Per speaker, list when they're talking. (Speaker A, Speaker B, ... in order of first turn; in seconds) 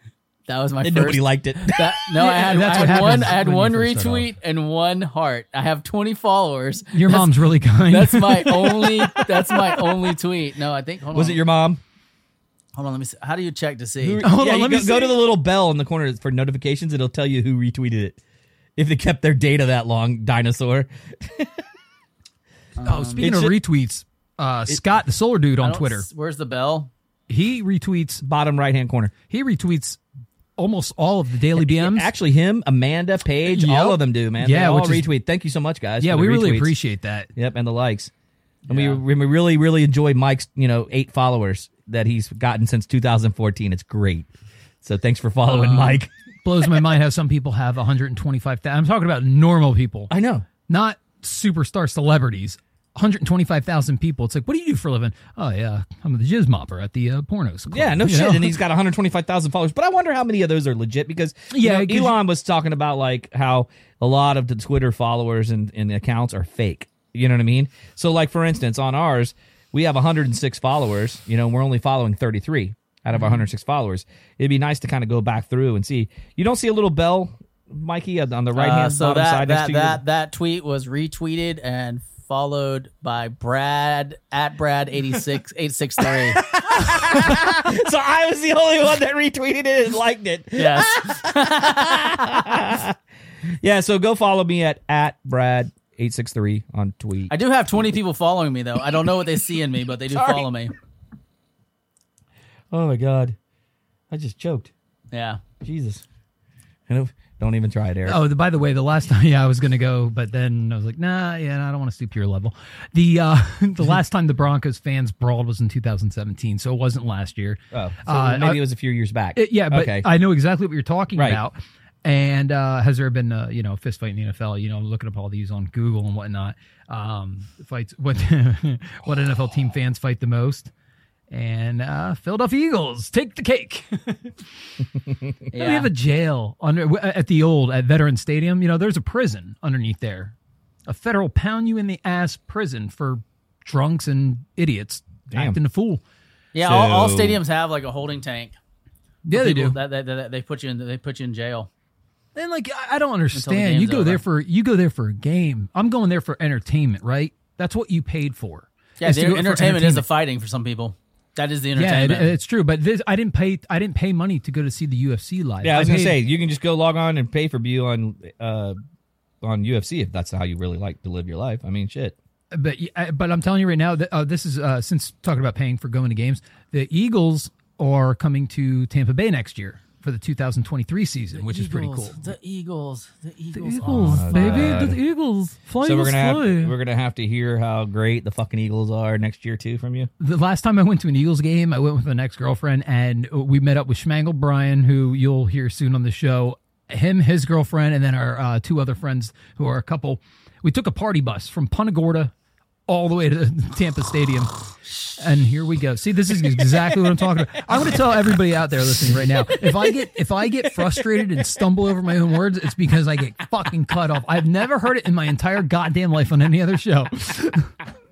Speaker A: 0.5-7.3, 7.9-11.4, 12.7-14.2, 22.8-23.3, 25.6-26.9, 78.5-86.5, 90.5-92.4, 97.3-100.7, 105.1-105.4, 135.5-135.9, 146.5-148.6, 149.3-151.7, 153.3-154.2, 159.0-162.3, 181.4-184.8
Speaker B: 0.8-1.9, 11.1-11.8, 14.0-18.2, 18.8-21.5, 23.2-23.6, 28.2-29.1, 31.6-36.8, 37.4-38.1, 38.7-44.3, 44.8-46.1, 50.1-50.5, 57.7-80.0, 86.1-93.0, 93.6-97.3, 100.1-100.5, 102.7-103.4, 104.1-104.7, 105.6-106.0, 106.9-108.2, 117.7-120.1, 121.1-121.4, 145.3-145.6, 146.6-147.4, 165.6-168.8, 169.4-172.2, 183.9-185.0, 185.8-190.1
Speaker C: 2.1-4.3, 6.9-9.6, 14.2-15.2, 22.8-26.1, 27.3-28.2, 29.3-30.0, 30.6-32.1, 33.4-35.1, 36.0-37.3, 45.5-50.1, 50.7-58.5, 61.5-62.2, 108.0-118.6, 119.3-130.7, 131.3-134.3, 135.5-140.3, 140.9-146.0, 149.2-149.8, 152.3-160.0, 161.8-166.2, 172.5-182.2, 183.5-186.7, 190.2-202.3, 202.9-204.5, 205.1-217.7